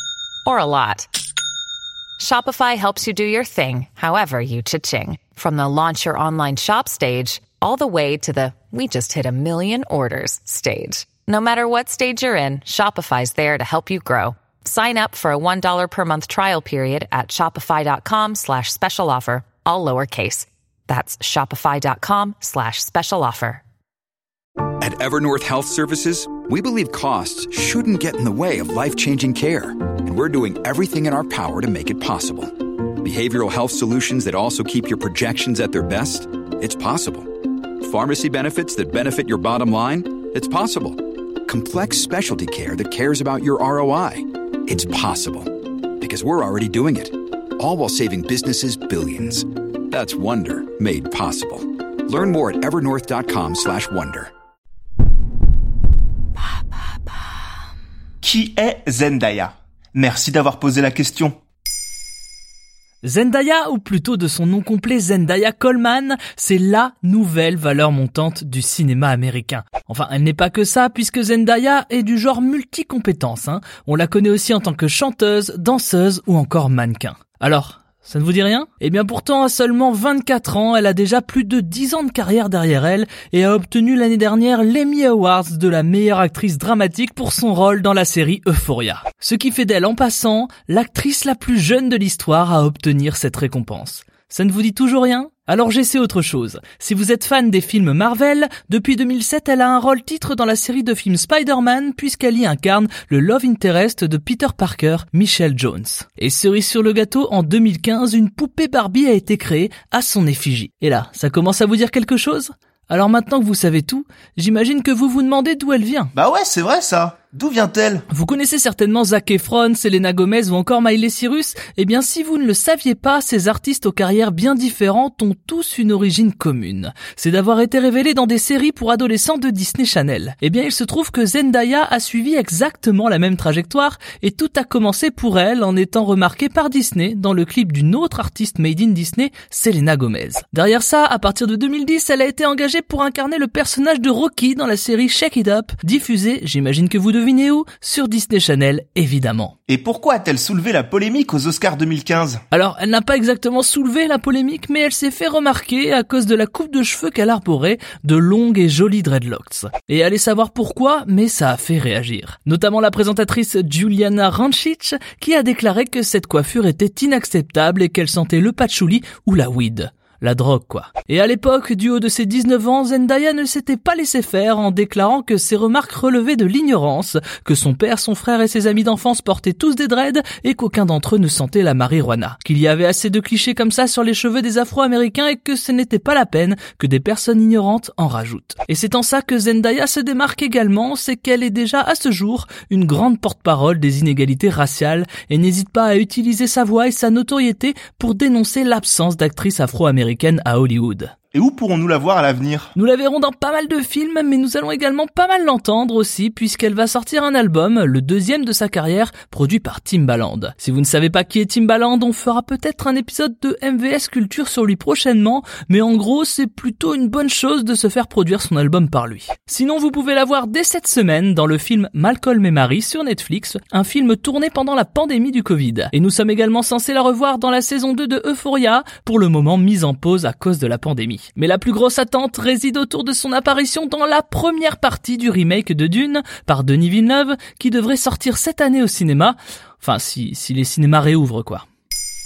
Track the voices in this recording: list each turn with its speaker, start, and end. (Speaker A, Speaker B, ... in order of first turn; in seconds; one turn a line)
Speaker A: 0.4-1.1
Speaker A: 2.2-23.6
Speaker B: 24.8-54.3
Speaker C: 58.2-61.4
Speaker D: 63.0-116.1
Speaker C: 116.1-118.1
Speaker D: 118.1-149.5
Speaker C: 149.7-152.4
Speaker D: 152.5-201.1
Speaker C: 201.3-202.7
Speaker D: 202.7-241.7